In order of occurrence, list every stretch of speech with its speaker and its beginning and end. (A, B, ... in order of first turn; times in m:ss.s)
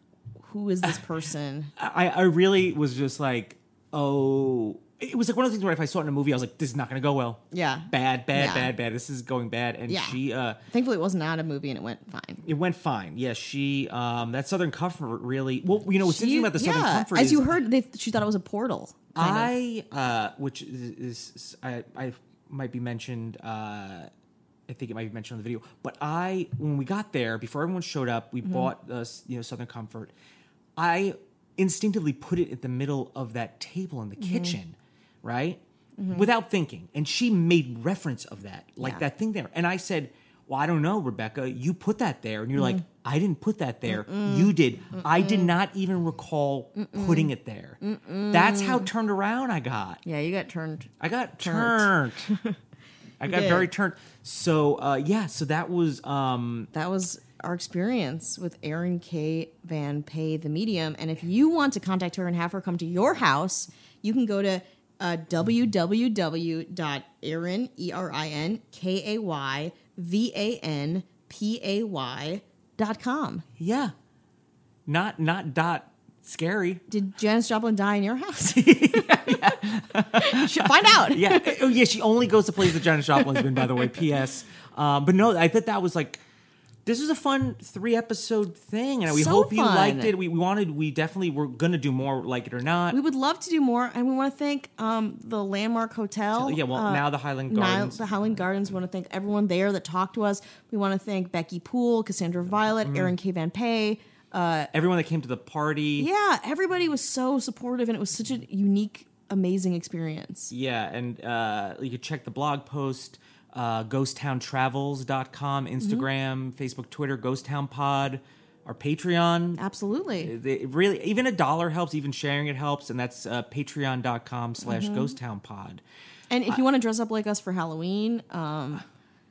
0:00.4-0:01.7 A
0:01.8-0:10.6 B
0:07.5-0:08.7 A
0:09.9-0:12.4 A
0:12.4-0:17.5 B
0:16.0-0:19.5 A
0:19.1-0:24.1 B
0:24.7-0:30.1 B
0:30.8-0:35.6 B
0:36.0-0:36.2 A
0:36.1-0:50.0 B
0:43.9-0:45.5 A
0:46.8-0:48.9 A
0:50.0-0:52.6 A
0:51.0-0:52.3 B
0:53.2-0:56.7 B
0:53.2-0:53.7 A
0:56.7-1:13.4 A
1:13.6-1:13.9 B
1:14.8-1:16.8 B
1:16.9-1:19.6 A
1:18.4-1:26.2 B
1:20.1-1:21.6 A
1:26.8-1:33.0 B
1:29.1-1:30.2 A
1:32.9-1:44.7 A
1:36.3-1:38.2 B
1:42.5-1:43.1 B
1:44.7-1:46.1 B
1:46.0-1:50.5 A
1:50.5-1:59.6 B
1:55.8-1:56.1 A
1:59.6-2:00.3 A
2:00.2-2:05.8 B
2:04.6-2:05.1 A
2:06.3-2:08.8 A